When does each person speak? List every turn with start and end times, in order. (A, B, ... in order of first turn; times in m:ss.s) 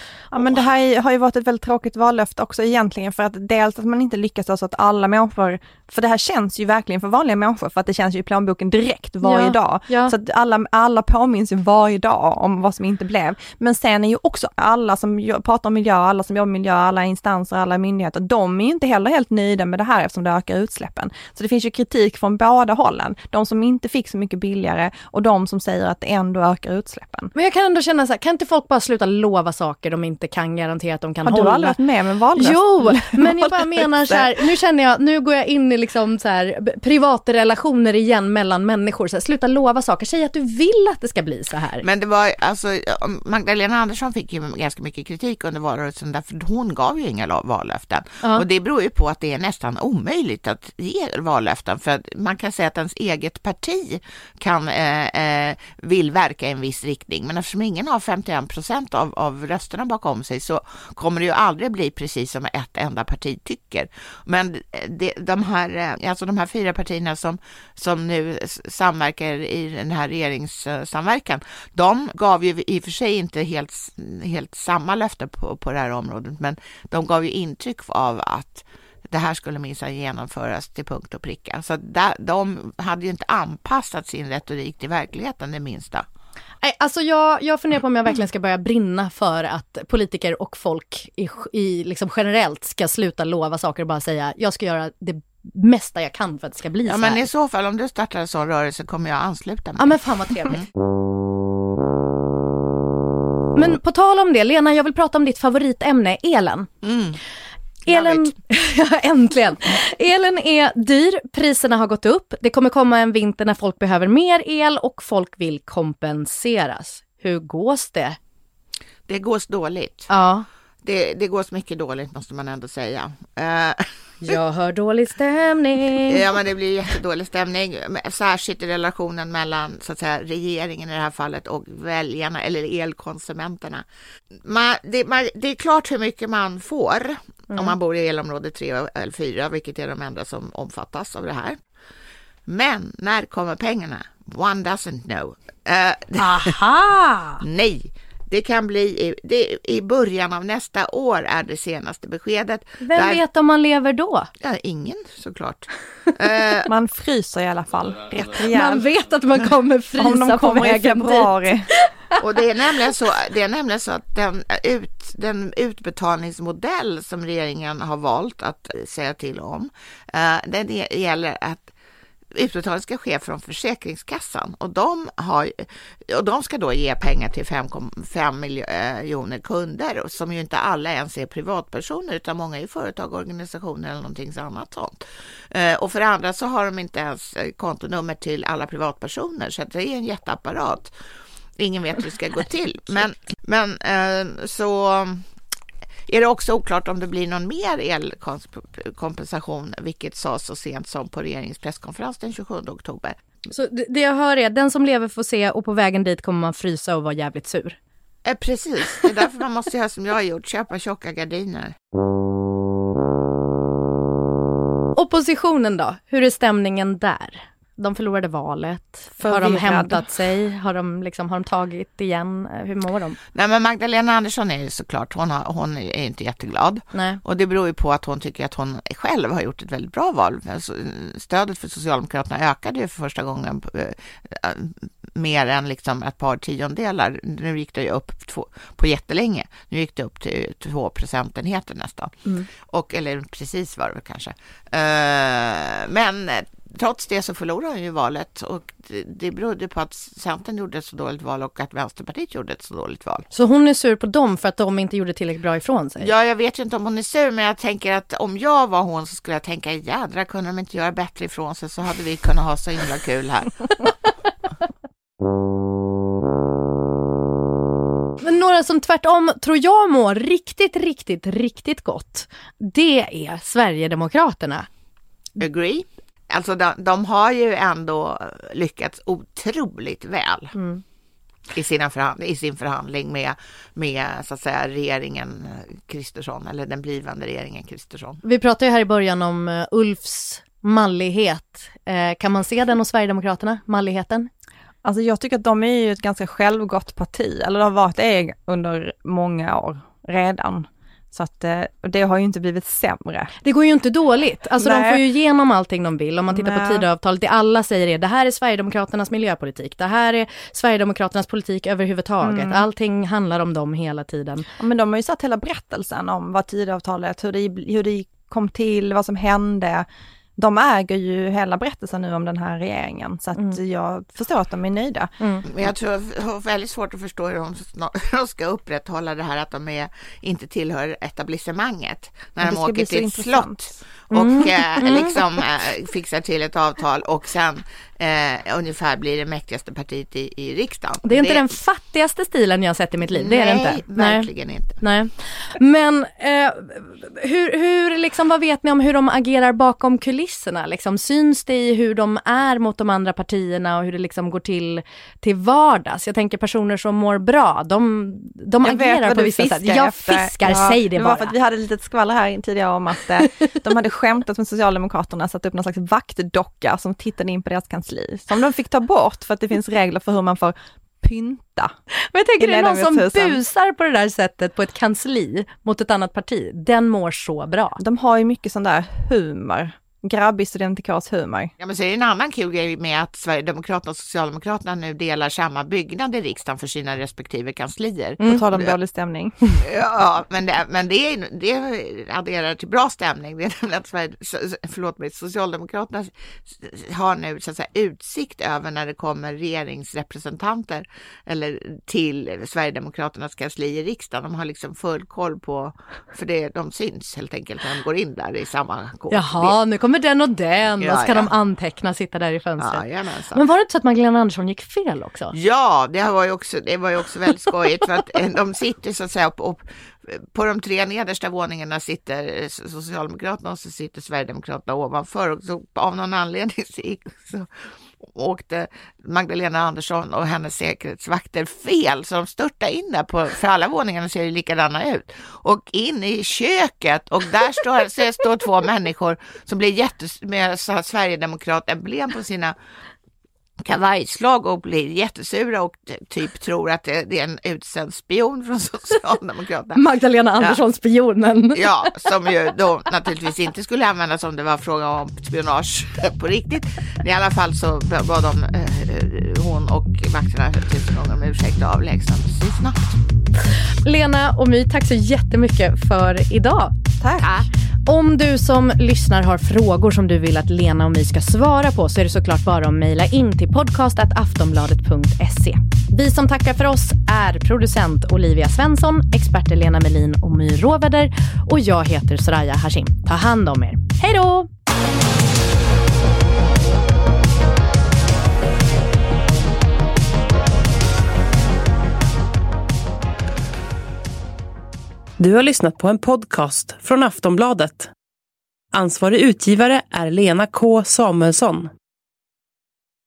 0:00.3-0:27.3 A
0:09.2-0:10.1 B
0:27.3-0:31.8 B
0:31.2-0:34.3 A
0:32.4-0:41.8 B
0:41.8-1:26.0 C
1:26.6-1:37.2 B
1:36.8-1:40.6 C
1:39.8-1:40.6 B
1:43.6-1:46.7 B
1:46.8-1:47.2 C
1:47.9-1:48.3 C
1:47.9-1:58.2 B
1:59.1-2:00.1 C
2:00.1-2:00.4 B
2:00.8-2:04.3 C
2:04.2-2:06.2 B
2:06.1-2:13.8 C
2:14.4-2:21.6 C
2:22.5-2:26.5 C
2:26.2-2:27.4 B
2:27.4-2:33.2 C
2:32.8-2:34.3 B
2:34.4-2:36.7 C
2:36.7-2:38.8 A
2:38.5-2:42.2 B
2:40.0-2:41.7 A
2:42.2-2:51.7 C
2:52.3-3:05.0 C
3:05.5-3:10.9 C
3:11.6-3:15.2 C
3:16.1-3:23.2 C
3:23.5-3:27.8 B
3:28.2-3:31.7 C
3:35.0-3:43.2 B
3:39.2-3:40.0 A
3:43.3-4:13.3 C
3:46.9-3:47.2 B
4:13.3-4:16.1 B
4:16.0-4:23.9 C
4:28.2-4:34.7 B
4:35.4-4:40.5 C
4:40.5-4:40.8 B
4:41.5-4:48.2 C
4:48.2-4:54.3 B
4:54.8-5:03.3 A
5:03.4-5:14.5 B
5:04.6-5:05.0 A
5:06.3-5:06.8 A
5:12.2-5:12.7 A
5:14.6-5:19.8 A
5:20.4-5:25.1 A
5:25.2-5:25.4 B
5:25.4-5:41.5 C
5:32.4-5:33.7 A
5:34.1-5:35.2 B
5:41.0-5:44.3 B
5:43.1-5:44.8 C
5:44.8-6:01.3 B
5:58.6-6:11.7 A
6:12.1-6:17.8 B
6:12.4-6:13.4 A
6:17.8-6:21.5 A
6:21.6-6:28.7 C
6:28.2-6:29.3 A
6:29.6-6:49.5 C
6:49.1-6:52.8 B
6:50.8-6:51.3 C
6:52.6-6:53.4 C
6:53.3-6:55.3 B
6:55.3-7:07.5 C
7:08.0-7:22.5 C
7:23.6-7:29.8 C
7:29.8-7:31.9 B
7:31.5-7:43.0 C
7:43.8-7:46.7 B
7:47.0-7:47.3 A
7:47.2-7:47.4 C
7:47.8-8:04.5 B
8:15.2-8:17.9 D
8:18.7-8:21.7 D